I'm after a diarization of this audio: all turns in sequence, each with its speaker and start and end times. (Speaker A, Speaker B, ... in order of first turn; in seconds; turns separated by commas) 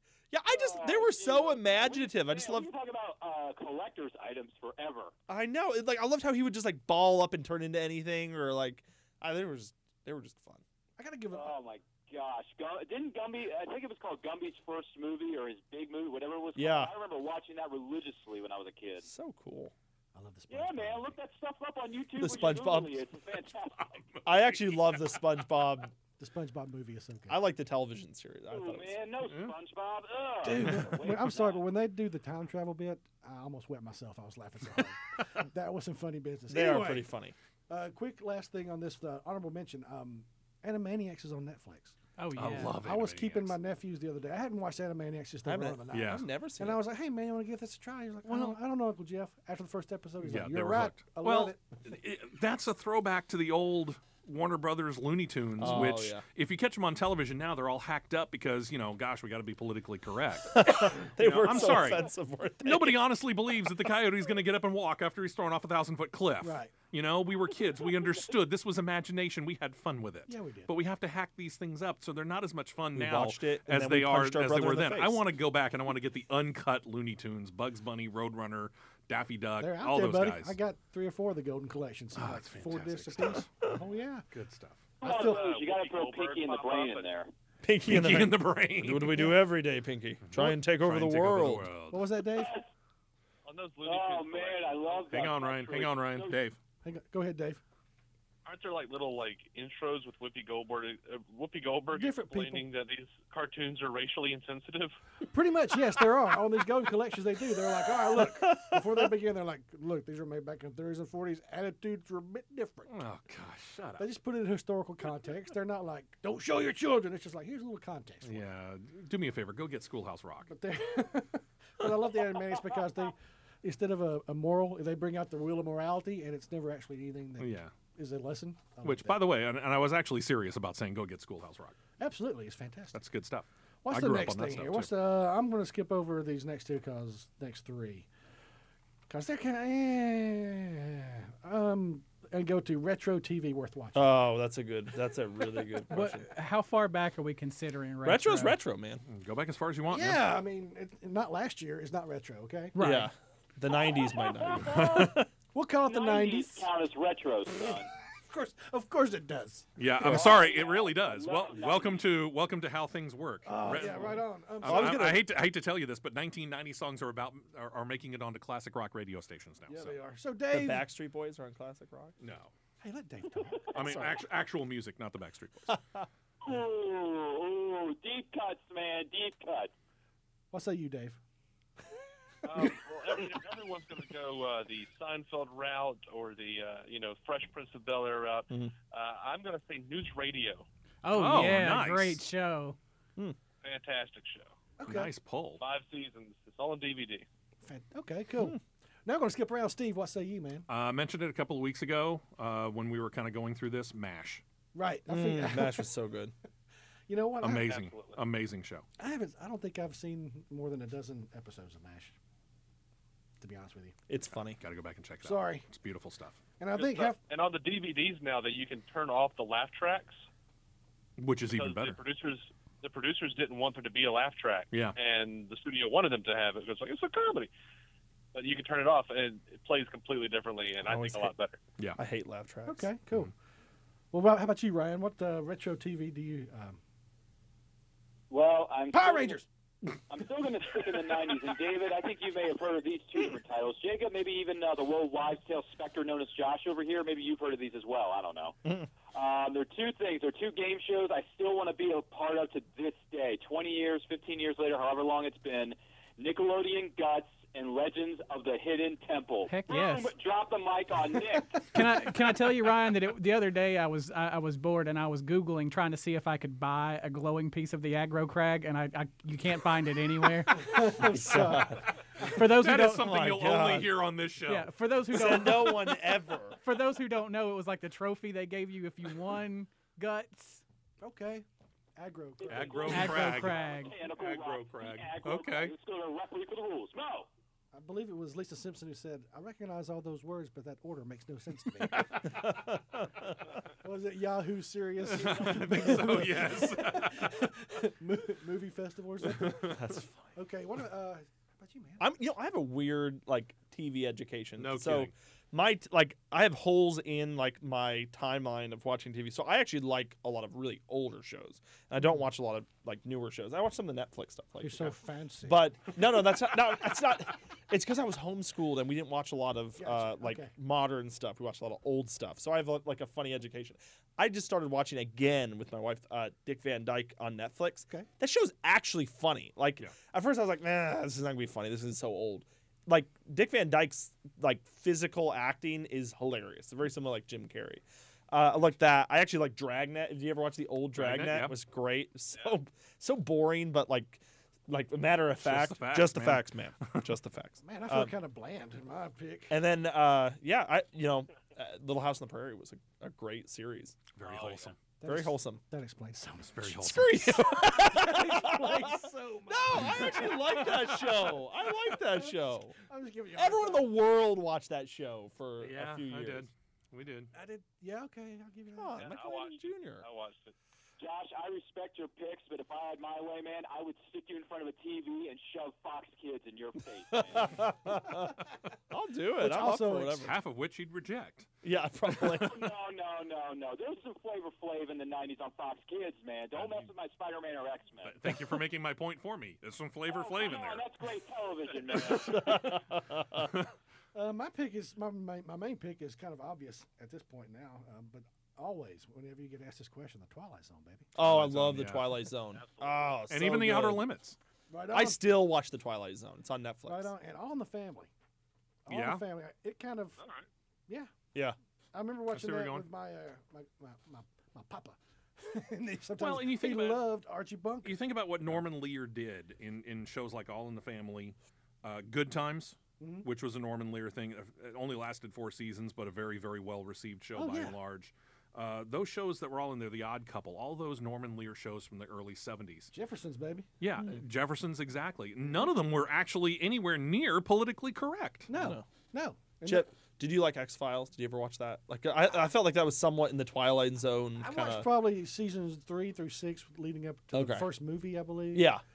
Speaker A: 0.3-2.7, Speaker B: 0.5-5.1, Speaker A: 5.3-10.6, Speaker C: 11.0-11.6, Speaker B: 11.3-19.1, Speaker A: 16.5-16.9, Speaker A: 19.0-19.7, Speaker C: 20.1-21.2, Speaker B: 20.5-24.0, Speaker A: 22.2-23.0, Speaker D: 23.9-25.2, Speaker A: 24.2-25.9, Speaker C: 26.2-27.4, Speaker A: 27.3-29.0, Speaker B: 28.5-31.6, Speaker D: 29.3-29.5, Speaker C: 30.4-37.1, Speaker A: 36.5-37.3, Speaker C: 37.7-42.0, Speaker E: 42.2-42.8, Speaker D: 42.3-43.6, Speaker C: 42.6-51.6, Speaker A: 45.5-46.8, Speaker D: 45.9-46.2, Speaker D: 48.3-48.5, Speaker D: 50.2-62.1, Speaker A: 55.6-56.2, Speaker A: 60.5-63.0, Speaker D: 62.6-80.6, Speaker C: 66.4-66.7, Speaker C: 70.3-70.7, Speaker A: 72.9-75.2, Speaker C: 79.6-84.2, Speaker D: 82.1-83.5, Speaker D: 84.3-84.9, Speaker F: 85.0-87.2, Speaker B: 85.0-87.3, Speaker C: 85.0-85.4, Speaker A: 87.6-91.7, Speaker D: 87.8-89.3, Speaker D: 90.3-92.1, Speaker C: 91.9-92.6, Speaker F: 93.4-95.9, Speaker B: 93.8-96.3, Speaker D: 95.1-96.6, Speaker C: 96.8-97.6, Speaker F: 98.4-104.9, Speaker C: 101.9-102.7, Speaker C: 105.3-113.0, Speaker A: 108.2-108.8, Speaker D: 112.9-114.1, Speaker C: 114.0-118.4, Speaker D: 118.2-120.5, Speaker C: 120.5-129.2, Speaker D: 127.4-127.7, Speaker D: 128.8-131.8, Speaker C: 132.0-133.0, Speaker D: 132.9-134.9, Speaker C: 133.8-138.1, Speaker C: 139.1-144.2, Speaker A: 143.9-146.3, Speaker E: 145.9-148.6, Speaker A: 148.0-149.0, Speaker D: 149.1-150.2, Speaker C: 149.9-152.7, Speaker E: 152.7-153.1, Speaker A: 152.8-155.3, Speaker B: 154.0-155.1, Speaker D: 154.7-155.2, Speaker C: 155.5-156.7, Speaker B: 155.9-157.9, Speaker C: 157.7-160.4, Speaker D: 159.8-170.0, Speaker B: 160.1-162.0, Speaker C: 163.4-165.2, Speaker A: 163.8-164.1, Speaker A: 164.6-165.2, Speaker C: 169.7-170.9, Speaker A: 170.5-172.1, Speaker D: 172.2-172.5, Speaker C: 172.8-174.1, Speaker D: 173.7-175.8, Speaker A: 173.8-174.1, Speaker A: 175.7-176.0, Speaker B: 176.4-179.7, Speaker C: 180.5-181.2, Speaker F: 182.4-190.7, Speaker E: 191.0-192.8, Speaker D: 191.1-192.2, Speaker F: 193.6-194.5, Speaker C: 194.8-195.1, Speaker D: 194.9-195.6, Speaker F: 195.6-197.2, Speaker C: 197.6-200.7, Speaker D: 200.7-204.4, Speaker C: 204.7-205.9, Speaker A: 205.1-206.3, Speaker C: 207.1-207.8, Speaker D: 207.4-208.8, Speaker F: 207.7-208.2, Speaker C: 209.0-212.2, Speaker C: 213.4-213.9, Speaker A: 214.1-214.6, Speaker D: 214.6-216.4, Speaker C: 215.2-215.7, Speaker C: 216.6-217.2, Speaker F: 216.8-220.2, Speaker D: 221.2-222.0, Speaker F: 221.5-227.5, Speaker D: 224.7-225.0, Speaker F: 228.3-231.6, Speaker A: 230.8-231.3, Speaker A: 232.0-232.9, Speaker C: 232.7-233.3, Speaker C: 234.1-236.8, Speaker B: 238.3-239.4, Speaker C: 238.9-239.4, Speaker B: 240.1-248.6, Speaker B: 249.1-261.7, Speaker E: 259.5-260.1, Speaker E: 261.7-270.7, Speaker C: 270.5-272.2, Speaker A: 270.6-271.9, Speaker E: 272.3-273.1, Speaker D: 272.3-274.7, Speaker A: 272.7-273.9, Speaker E: 274.4-280.6, Speaker A: 275.1-276.6, Speaker C: 281.0-283.1, Speaker B: 282.4-287.3, Speaker D: 282.5-285.7, Speaker E: 282.9-283.9, Speaker C: 287.7-292.3, Speaker A: 292.2-293.4, Speaker C: 293.8-299.8, Speaker D: 295.1-297.4, Speaker D: 299.3-299.8, Speaker A: 299.6-300.3, Speaker C: 300.3-302.1, Speaker A: 302.0-348.1, Speaker D: 304.6-305.1, Speaker C: 314.6-315.8, Speaker C: 319.8-320.5, Speaker D: 340.9-341.6, Speaker D: 345.4-347.1, Speaker C: 347.6-349.6, Speaker A: 349.5-355.6, Speaker D: 354.1-354.8, Speaker F: 354.2-354.7, Speaker C: 355.0-361.3, Speaker D: 356.4-357.5, Speaker A: 356.8-362.8, Speaker D: 359.7-360.2, Speaker C: 361.9-363.9, Speaker A: 363.3-366.5, Speaker D: 365.6-367.3, Speaker C: 367.3-369.1, Speaker A: 368.8-370.0, Speaker F: 368.9-370.5, Speaker B: 371.0-377.6, Speaker A: 377.1-380.4, Speaker C: 379.4-380.3, Speaker D: 380.2-381.5, Speaker A: 381.6-382.6, Speaker D: 382.1-382.5, Speaker B: 382.4-388.3, Speaker D: 386.5-386.9, Speaker D: 388.0-390.9, Speaker B: 390.1-392.7, Speaker A: 392.0-393.5, Speaker C: 394.1-401.1, Speaker A: 401.1-404.0, Speaker D: 401.2-402.3, Speaker F: 402.6-403.3, Speaker D: 403.3-404.4, Speaker C: 404.7-405.4, Speaker A: 404.9-407.1, Speaker C: 406.9-408.1, Speaker C: 408.9-410.2, Speaker D: 408.9-409.2, Speaker F: 410.2-410.5, Speaker C: 411.9-418.0, Speaker D: 412.3-412.9, Speaker D: 416.2-417.1, Speaker D: 417.8-432.9, Speaker C: 423.0-423.3, Speaker C: 427.3-427.8, Speaker C: 432.9-433.7, Speaker D: 433.8-438.5, Speaker C: 438.5-439.9, Speaker A: 438.5-438.8, Speaker A: 439.6-444.9, Speaker C: 444.4-448.7, Speaker A: 447.3-447.6, Speaker A: 448.5-448.8